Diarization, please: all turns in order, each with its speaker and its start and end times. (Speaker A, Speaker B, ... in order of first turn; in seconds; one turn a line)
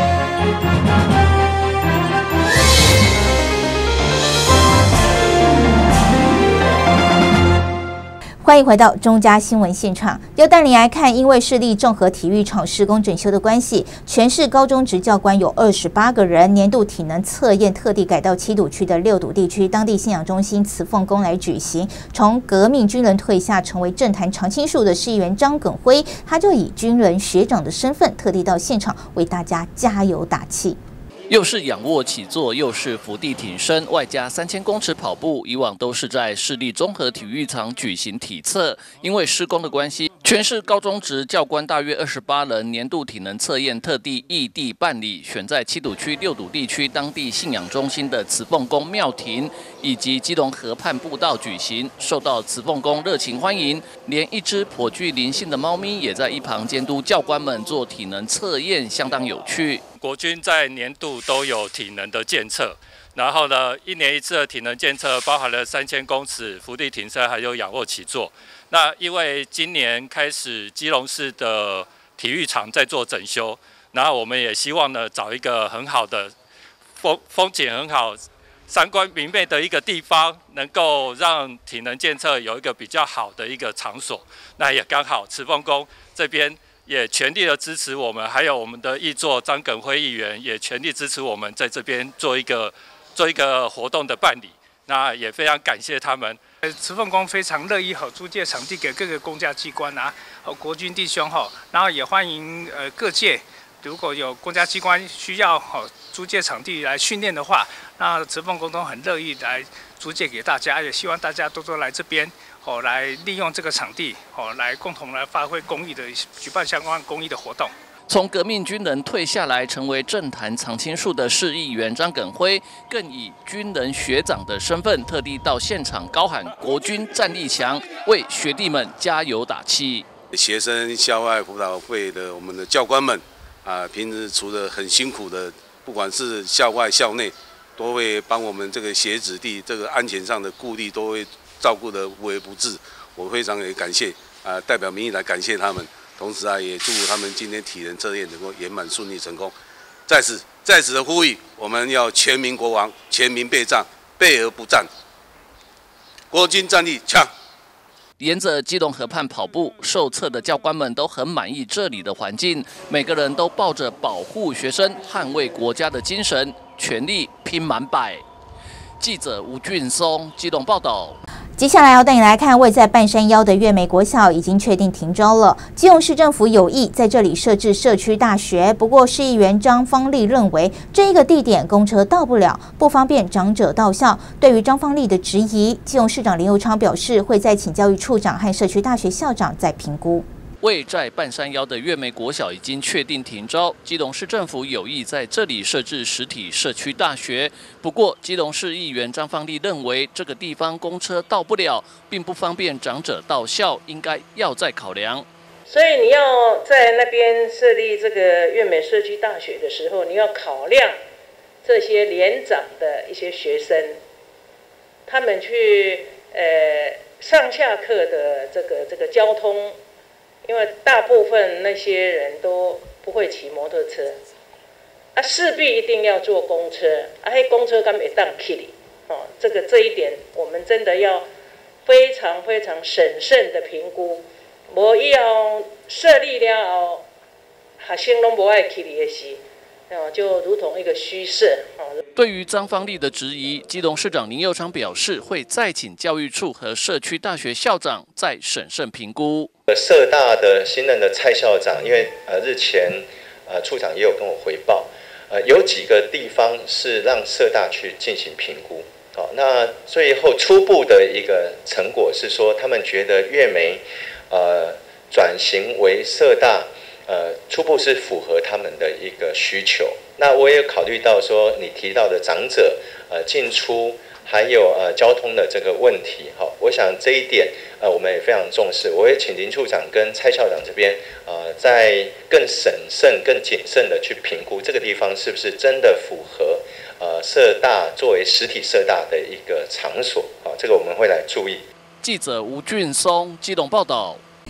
Speaker A: 8.4-30.8
Speaker B: 31.3-59.8
Speaker C: 60.0-76.3
Speaker C: 77.0-96.4
Speaker D: 96.6-117.7
Speaker B: 118.1-130.1
Speaker E: 130.3-149.5
Speaker E: 150.1-154.9
Speaker E: 156.3-157.3
Speaker B: 158.2-168.2
Speaker B: 169.0-171.2
Speaker A: 171.6-190.3
Speaker B: 190.6-205.2
Speaker F: 205.7-210.9
Speaker F: 211.6-214.0
Speaker F: 215.1-219.8
Speaker F: 220.4-224.2
Speaker F: 225.1-231.2
Speaker F: 231.8-237.1
Speaker F: 237.8-242.0
Speaker B: 242.1-249.5
Speaker G: 249.7-291.6
Speaker B: 292.0-294.2